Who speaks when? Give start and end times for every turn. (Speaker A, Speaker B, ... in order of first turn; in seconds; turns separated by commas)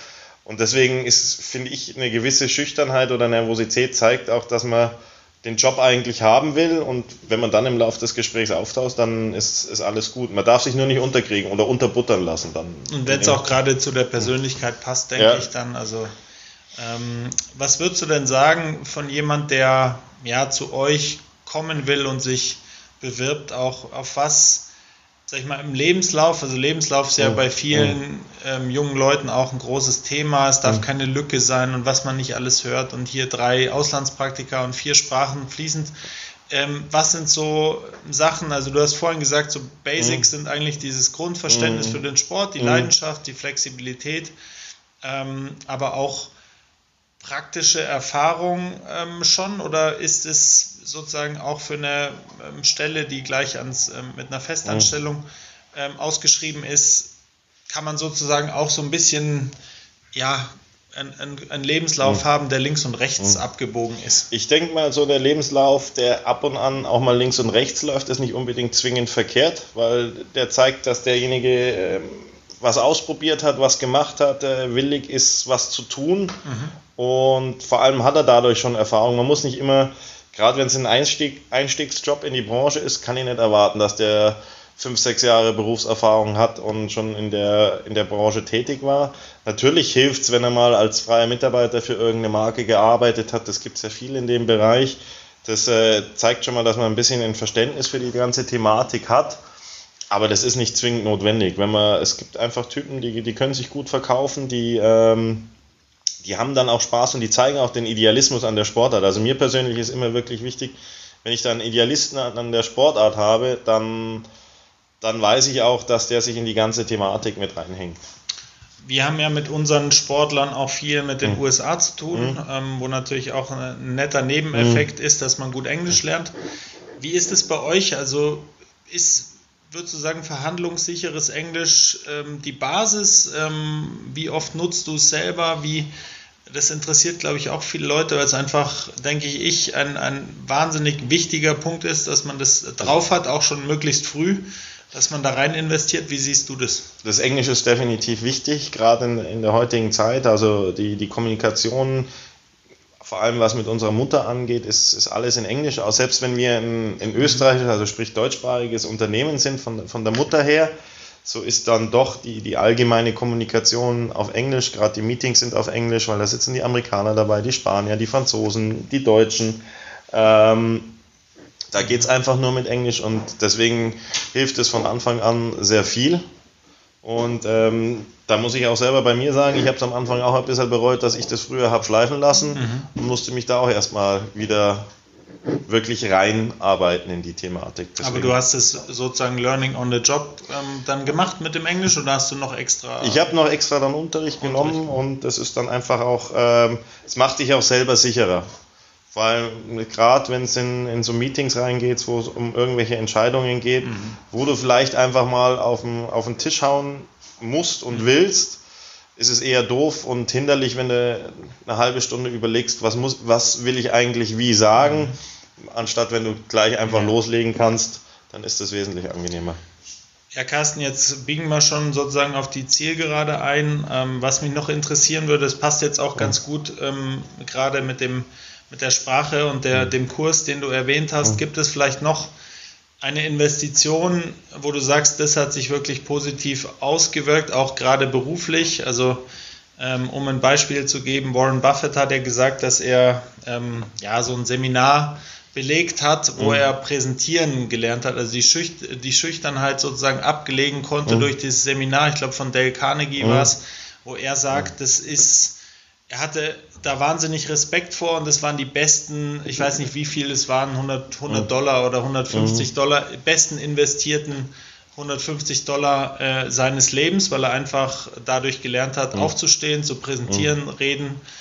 Speaker A: 0.4-13.4, Speaker B: 12.9-16.1, Speaker A: 15.2-15.4, Speaker B: 16.8-24.7, Speaker B: 25.3-35.9, Speaker A: 27.2-27.9, Speaker B: 36.5-44.3, Speaker A: 40.0-40.3, Speaker A: 41.5-42.0, Speaker A: 42.6-42.9, Speaker B: 45.0-46.3, Speaker B: 47.2-57.1, Speaker A: 54.6-54.9, Speaker B: 57.7-59.5, Speaker B: 60.1-64.3, Speaker A: 64.3-76.4, Speaker B: 76.4-76.8, Speaker A: 76.9-99.4, Speaker A: 100.1-105.5, Speaker A: 106.2-114.2, Speaker A: 115.0-118.0, Speaker B: 118.8-126.3, Speaker A: 122.1-122.4, Speaker A: 124.5-124.8, Speaker B: 127.0-135.9, Speaker B: 136.5-146.9, Speaker A: 147.0-152.1, Speaker A: 153.0-160.7, Speaker A: 161.2-170.9, Speaker A: 171.7-176.2, Speaker B: 171.8-172.1, Speaker A: 177.0-184.9, Speaker B: 182.5-182.9, Speaker A: 185.7-188.3, Speaker B: 188.0-193.3, Speaker A: 193.0-198.5, Speaker B: 194.4-194.9, Speaker A: 199.1-208.6, Speaker B: 203.8-204.2, Speaker A: 209.2-219.6, Speaker B: 214.8-215.2, Speaker B: 216.8-217.2, Speaker B: 220.3-232.3, Speaker B: 233.0-239.2, Speaker B: 239.8-255.6, Speaker A: 246.4-246.7, Speaker A: 253.2-253.5, Speaker B: 256.1-271.2, Speaker A: 262.3-262.7